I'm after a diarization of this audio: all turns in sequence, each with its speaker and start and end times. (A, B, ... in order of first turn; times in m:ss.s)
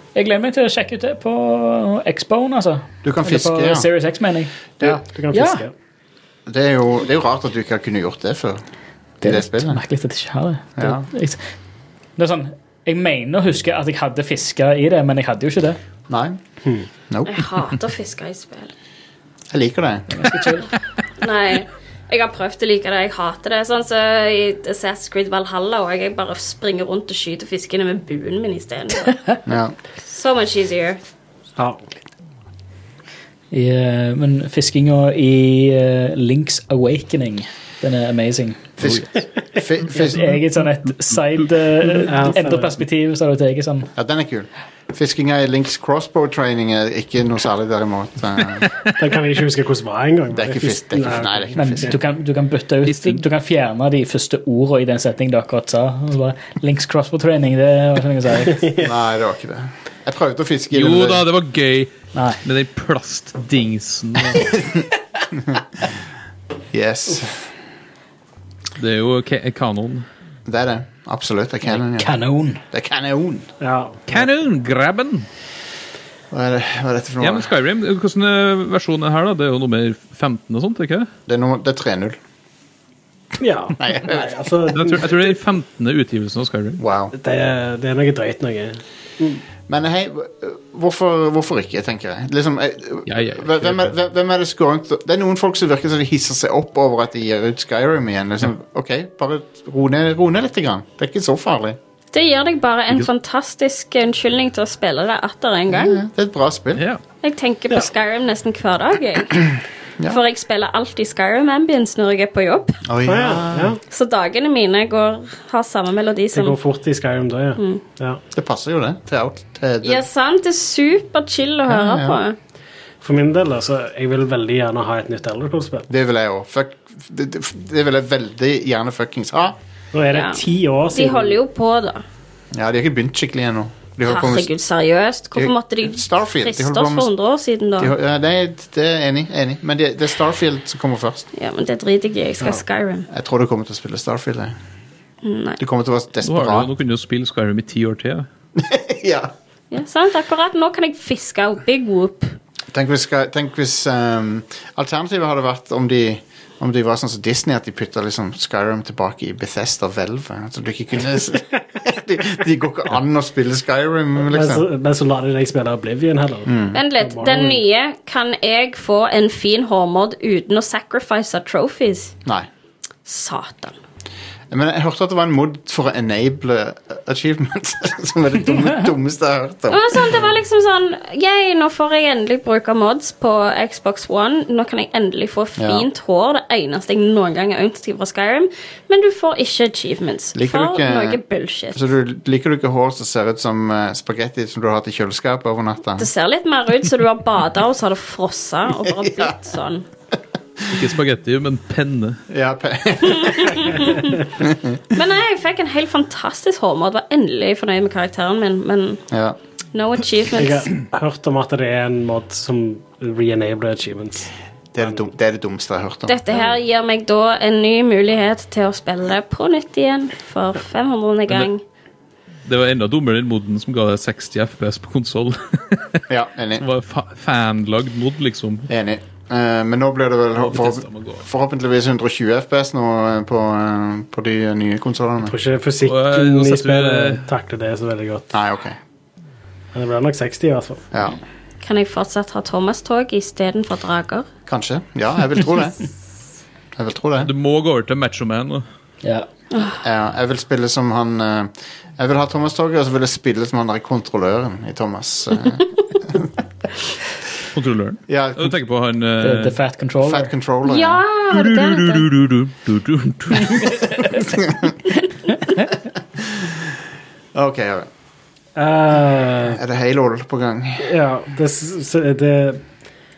0:00.1-0:04.5 A
0:03.0-0:03.9 B
0:04.8-0:05.7 C
0:05.3-0:05.6 A
0:06.5-0:08.6 B
0:09.2-0:09.8 B
0:09.2-0:11.4 A
0:10.8-0:11.0 B
0:12.2-0:15.8 A
0:16.1-0:16.4 B
0:17.1-0:17.4 B
0:17.3-0:18.7 D
0:19.5-0:20.3 B
0:20.1-0:20.7 A
0:21.2-0:29.3 D
0:29.4-0:29.8 B
0:30.0-0:31.0 D
0:31.6-0:31.8 C
0:33.5-0:38.7 A
0:38.8-0:40.4 B
0:38.8-0:39.0 E
0:39.9-0:43.9 A
0:42.0-0:42.8 C
0:43.9-0:48.6 B
0:48.6-0:48.9 E
0:49.0-0:52.0 C
0:50.3-0:52.0 B
0:51.6-0:58.7 A
0:52.8-0:53.2 E
0:58.6-0:58.9 C
0:58.8-1:01.2 B
1:00.7-1:04.6 E
1:02.1-1:02.4 A
1:04.4-1:04.8 B
1:05.3-1:05.6 B
1:06.7-1:07.5 B
1:08.8-1:10.0 E
1:10.4-1:12.1 B
1:11.6-1:12.6 A
1:12.7-1:13.5 B
1:13.6-1:14.0 C
1:14.1-1:15.2 E
1:16.3-1:17.5 B
1:17.2-1:21.1 E
1:21.3-1:22.2 B
1:23.4-1:25.3 C
1:23.8-1:24.4 B
1:24.7-1:26.8 E
1:26.8-1:27.1 B
1:27.1-1:29.4 C
1:29.7-1:41.8 B
1:33.1-1:33.9 E
1:42.1-1:46.0 D
1:45.7-1:46.8 B
1:46.8-1:47.0 E
1:47.2-1:49.5 D
1:50.0-1:52.8 D
1:52.9-1:53.8 B
1:53.0-1:53.8 C
1:53.9-1:56.6 D
1:56.3-1:58.2 C
1:58.3-2:00.0 B
1:59.8-2:02.4 D
2:01.7-2:02.2 B
2:03.0-2:05.9 C
2:05.9-2:09.6 B
2:09.9-2:11.4 C
2:10.1-2:12.0 D
2:12.5-2:14.5 B
2:14.0-2:17.9 D
2:15.3-2:17.1 B
2:17.8-2:21.3 B
2:21.4-2:23.1 D
2:23.1-2:24.6 B
2:25.2-2:25.6 D
2:25.6-2:26.7 B
2:26.2-2:28.3 E
2:28.6-2:29.3 B
2:29.7-2:32.4 D
2:32.7-2:44.6 B
2:44.2-2:47.6 C
2:46.4-2:46.8 B
2:46.7-2:52.1 D
2:53.0-2:53.8 D
2:54.5-3:00.0 B
2:59.7-3:11.9 D
3:05.6-3:05.8 B
3:10.3-3:11.2 B
3:11.7-3:16.1 B
3:16.0-3:19.8 D
3:18.8-3:19.3 B
3:20.7-3:22.2 E
3:22.3-3:23.8 B
3:23.1-3:24.2 D
3:24.4-3:24.8 B
3:24.9-3:29.0 D
3:29.1-3:29.4 B
3:29.7-3:30.7 D
3:30.4-3:35.1 C
3:34.7-3:36.2 B
3:36.1-3:41.6 D
3:42.4-3:46.0 E
3:46.1-3:46.6 B
3:46.6-3:48.7 E
3:48.7-3:55.3 B
3:50.4-3:51.2 E
3:55.3-3:58.3 C
3:55.8-3:57.3 E
3:58.3-3:58.8 B
3:59.7-4:00.9 C
4:00.9-4:01.2 B
4:01.6-4:04.3 D
4:04.5-4:05.9 B
4:06.7-4:07.3 B
4:07.2-4:08.6 E
4:09.5-4:09.8 D
4:09.8-4:16.3 B
4:17.5-4:19.6 E
4:18.1-4:18.6 B
4:19.2-4:20.3 A
4:20.0-4:21.0 B
4:20.6-4:22.1 D
4:21.3-4:24.0 E
4:24.3-4:24.7 B
4:26.4-4:26.6 B
4:27.3-4:27.9 B
4:28.6-4:29.6 C
4:29.4-4:30.9 B
4:30.8-4:32.6 C